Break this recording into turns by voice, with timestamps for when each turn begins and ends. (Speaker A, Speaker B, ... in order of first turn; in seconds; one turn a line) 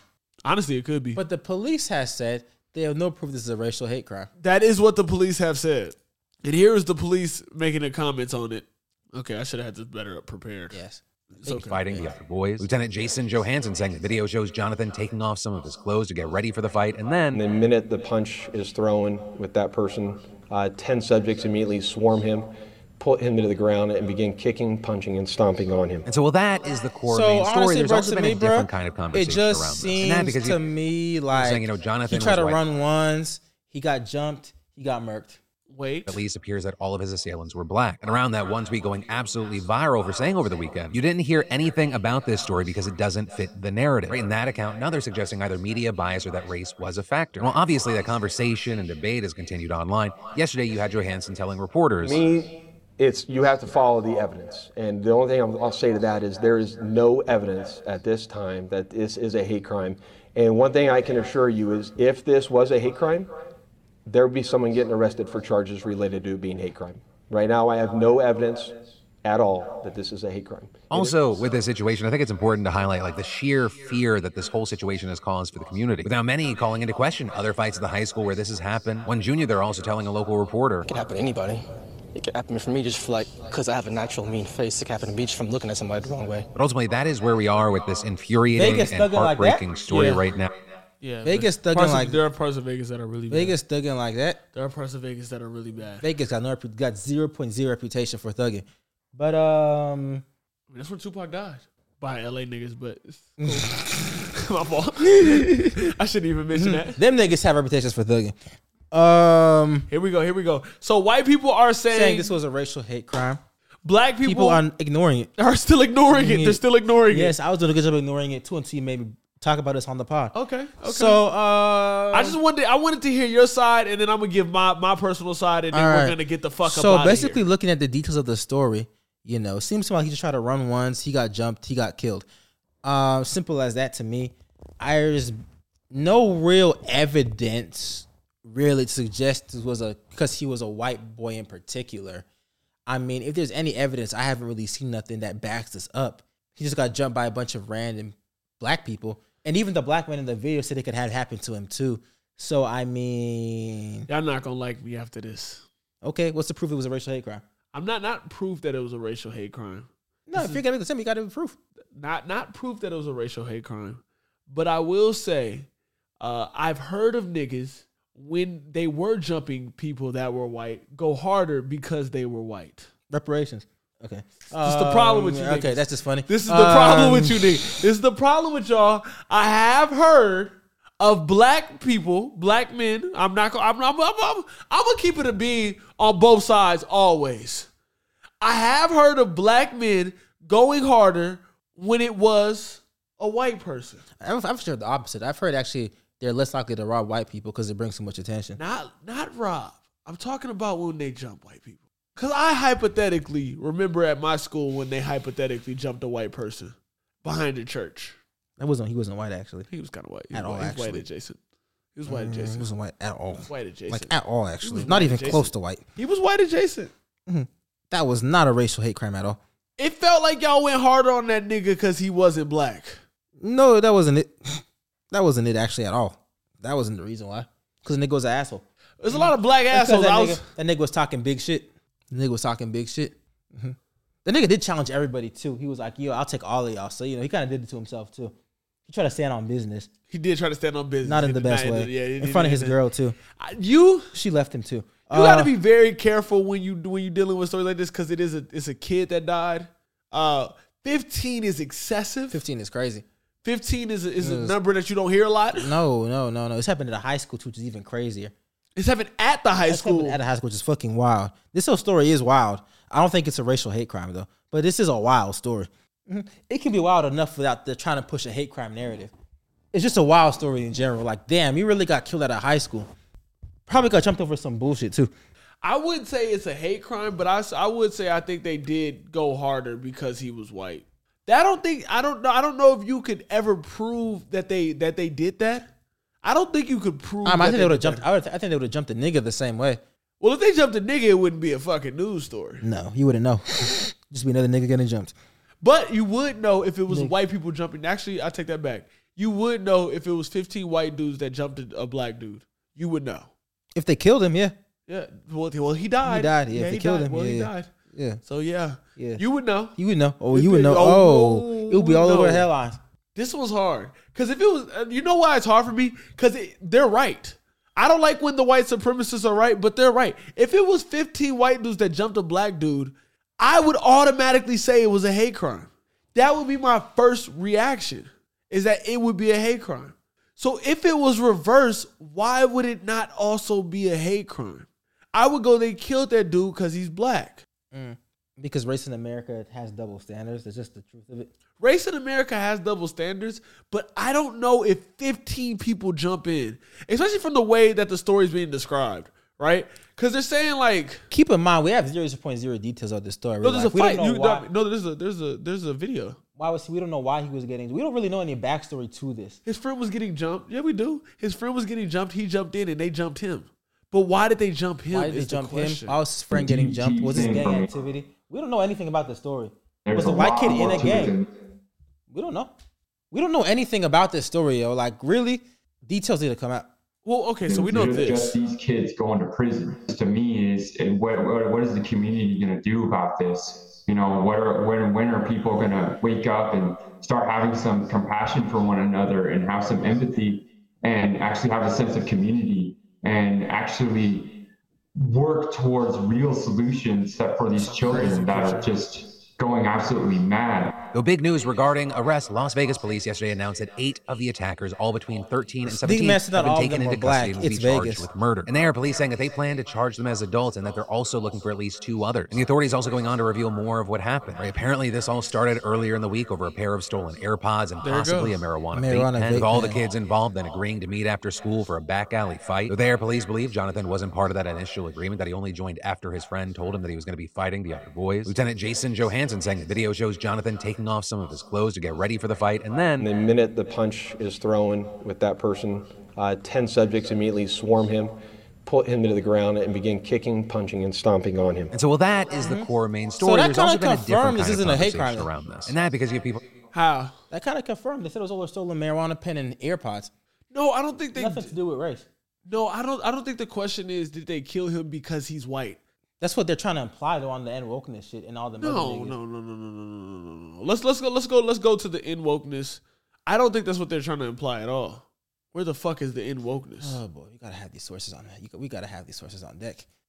Speaker A: 0.5-1.2
Speaker B: 1.1-4.3
Speaker A: 4.4-10.8
Speaker B: 10.7-12.2
Speaker A: 11.4-11.7
Speaker C: 11.6-17.4
Speaker D: 17.3-26.1
Speaker C: 26.1-30.6
Speaker B: 27.1-35.4
Speaker C: 31.3-32.6
Speaker A: 35.7-36.2
Speaker C: 36.1-52.2
Speaker D: 52.0-63.3
Speaker D: 64.1-71.2
Speaker C: 70.9-80.9
Speaker E: 80.9-86.5
Speaker C: 86.5-90.5
Speaker B: 88.5-89.7
Speaker A: 89.9-90.2
Speaker A: 91.0-93.6
Speaker B: 91.2-92.2
Speaker B: 93.3-94.4
Speaker A: 94.5-96.1
Speaker B: 96.0-100.2
Speaker A: 100.7-107.0
Speaker B: 103.4-103.8
Speaker B: 105.2-105.8
Speaker B: 106.5-108.4
Speaker B: 108.9-109.9
Speaker A: 109.9-112.3
Speaker B: 111.9-113.4
Speaker A: 113.8-114.6
Speaker B: 114.2-115.3
Speaker A: 115.4-117.3
Speaker B: 116.1-122.4
Speaker A: 120.3-121.2
Speaker A: 122.1-127.4
Speaker B: 125.7-132.3
Speaker B: 132.8-135.4
Speaker B: 135.9-142.2
Speaker B: 142.9-154.1
Speaker A: 154.1-155.7
Speaker B: 156.0-157.4
Speaker A: 157.7-160.6
Speaker B: 160.3-161.6
Speaker A: 162.0-165.7
Speaker A: 166.2-172.9
Speaker B: 173.1-177.5
Speaker A: 174.6-187.7
Speaker A: 188.4-194.1
Speaker B: 194.2-198.6
Speaker A: 198.6-208.2
Speaker B: 208.6-209.7
Speaker A: 209.7-211.4
Speaker B: 210.3-211.0
Speaker A: 211.9-212.7
Speaker B: 212.1-215.8
Speaker A: 213.5-216.9
Speaker B: 217.3-219.4
Speaker A: 219.8-223.0
Speaker B: 223.4-238.3
Speaker A: 229.0-230.5
Speaker B: 238.9-239.9
Speaker A: 240.1-242.8
Speaker B: 241.0-243.2
Speaker A: 243.4-244.1
Speaker B: 244.1-245.5
Speaker A: 245.1-252.4
Speaker B: 252.3-253.1
Speaker A: 253.4-255.7
Speaker B: 254.2-254.6
Speaker B: 255.6-258.3
Speaker A: 258.8-260.2
Speaker B: 259.7-269.1
Speaker B: 269.7-272.9
Speaker B: 273.7-275.1
Speaker A: 275.6-285.7
Speaker A: 286.2-288.0
Speaker B: 287.2-289.8
Speaker A: 290.2-292.6
Speaker B: 292.6-295.1
Speaker A: 295.6-303.3
Speaker B: 296.9-297.1
Speaker B: 303.8-304.5
Speaker A: 304.9-307.7
Speaker B: 306.0-308.2
Speaker A: 308.2-309.8
Speaker B: 309.0-309.2
Speaker B: 309.8-312.8
Speaker A: 310.3-312.5
Speaker A: 313.1-337.4
Speaker B: 337.7-341.3
Speaker A: 341.6-351.0
Speaker B: 351.1-354.5
Speaker A: 353.4-356.2
Speaker B: 356.4-359.4
Speaker A: 359.5-366.0
Speaker B: 364.9-371.2
Speaker F: 366.3-367.7
Speaker F: 369.9-371.3
Speaker B: 372.1-372.5
Speaker B: 373.1-376.7
Speaker A: 377.1-378.4
Speaker F: 377.5-394.4
Speaker F: 395.0-400.8
Speaker A: 397.6-398.7
Speaker C: 400.9-433.1
Speaker B: 405.7-408.1
Speaker A: 417.8-418.4
Speaker B: 418.7-419.8
Speaker D: 433.0-441.7
Speaker C: 441.7-446.4
Speaker B: 442.4-445.3
Speaker A: 446.7-447.1
Speaker B: 447.3-450.1
Speaker A: 450.5-451.5
Speaker B: 451.1-452.1
Speaker A: 452.5-455.8
Speaker B: 456.2-459.2
Speaker A: 458.6-467.0
Speaker B: 466.8-469.9